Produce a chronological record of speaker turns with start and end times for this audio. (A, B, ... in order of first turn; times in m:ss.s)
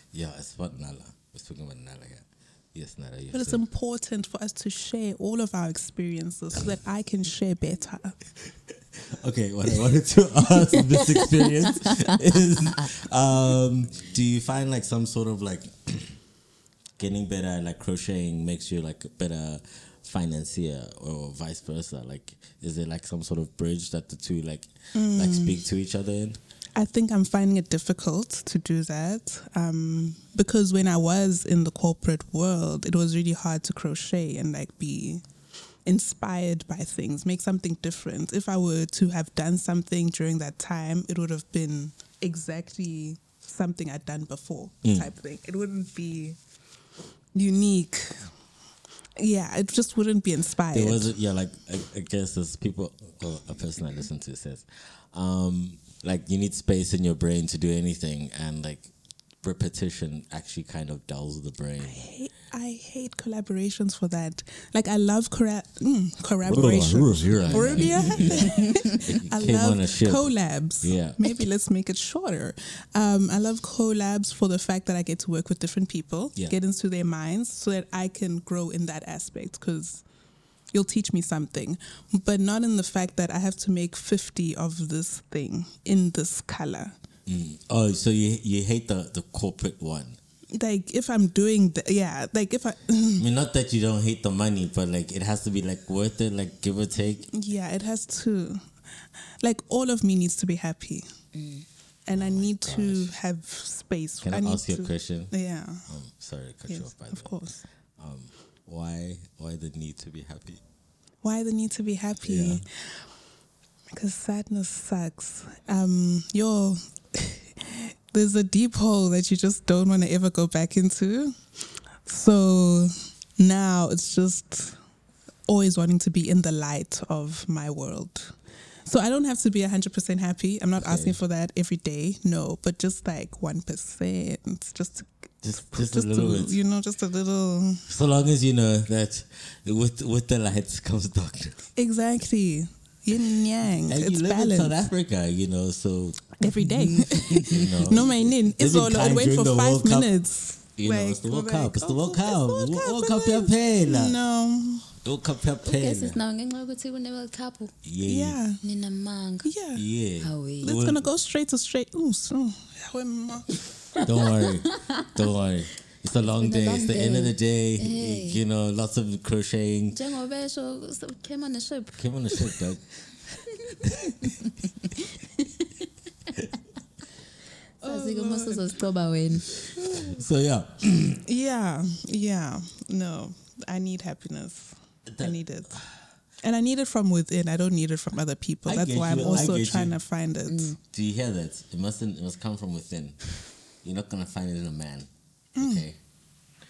0:00.1-0:03.6 A
0:03.3-0:08.1 B
0:09.0-0:16.2 A
0:10.7-0:12.2 C
0:17.0-0:26.4 A
0:24.9-0:25.6 B
0:26.8-0:35.2 B
0:35.9-0:46.4 B
0:44.8-0:45.1 A
0:47.3-0:48.3 B
0:49.2-0:51.1 B
0:50.7-0:58.9 A
0:59.4-1:02.0 A
1:01.8-1:20.0 B
1:06.4-1:10.3 A
1:07.5-1:08.9 C
1:10.8-1:11.2 A
1:20.7-1:26.9 B
1:27.3-1:30.2 A
1:30.5-1:33.2 B
1:33.2-1:37.3 A
1:37.3-1:38.6 B
1:39.4-1:41.1 B
1:41.3-1:41.6 C
1:42.1-1:45.9 B
1:42.1-1:43.1 A
1:44.2-1:45.3 A
1:45.9-1:47.4 A
1:46.7-1:47.6 B
1:48.0-1:50.6 A
1:51.2-1:53.0 B
1:52.2-1:52.6 A
1:53.9-2:01.4 B
2:02.0-2:04.8 B
2:05.5-2:08.3 B
2:08.9-2:17.8 B
2:10.8-2:11.2 A
2:15.4-2:16.6 A
2:17.9-2:21.7 A
2:21.8-2:24.9 B
2:23.9-2:26.3 A
2:26.4-2:34.9 B
2:26.6-2:27.6 C
2:27.2-2:30.1 A
2:30.8-2:34.2 A
2:35.0-2:36.2 A
2:35.6-2:37.7 C
2:37.8-2:38.4 A
2:38.0-2:38.6 B
2:38.6-2:39.5 C
2:39.4-2:39.8 B
2:39.7-2:41.0 A
2:40.2-2:40.8 C
2:40.6-2:43.6 B
2:43.9-2:45.1 C
2:44.0-2:50.0 A
2:46.3-2:48.4 C
2:49.9-2:52.6 C
2:52.0-2:52.8 A
2:53.4-2:55.9 C
2:53.8-2:54.3 A
2:57.8-2:58.8 B
2:57.8-2:59.6 C
2:59.7-3:00.2 B
2:59.9-3:01.2 A
3:01.2-3:05.8 B
3:05.1-3:05.9 A
3:06.4-3:10.8 B
3:08.6-3:10.0 A
3:09.2-3:09.5 C
3:10.5-3:10.8 C
3:10.9-3:13.2 A
3:13.8-3:16.0 A
3:15.6-3:15.8 B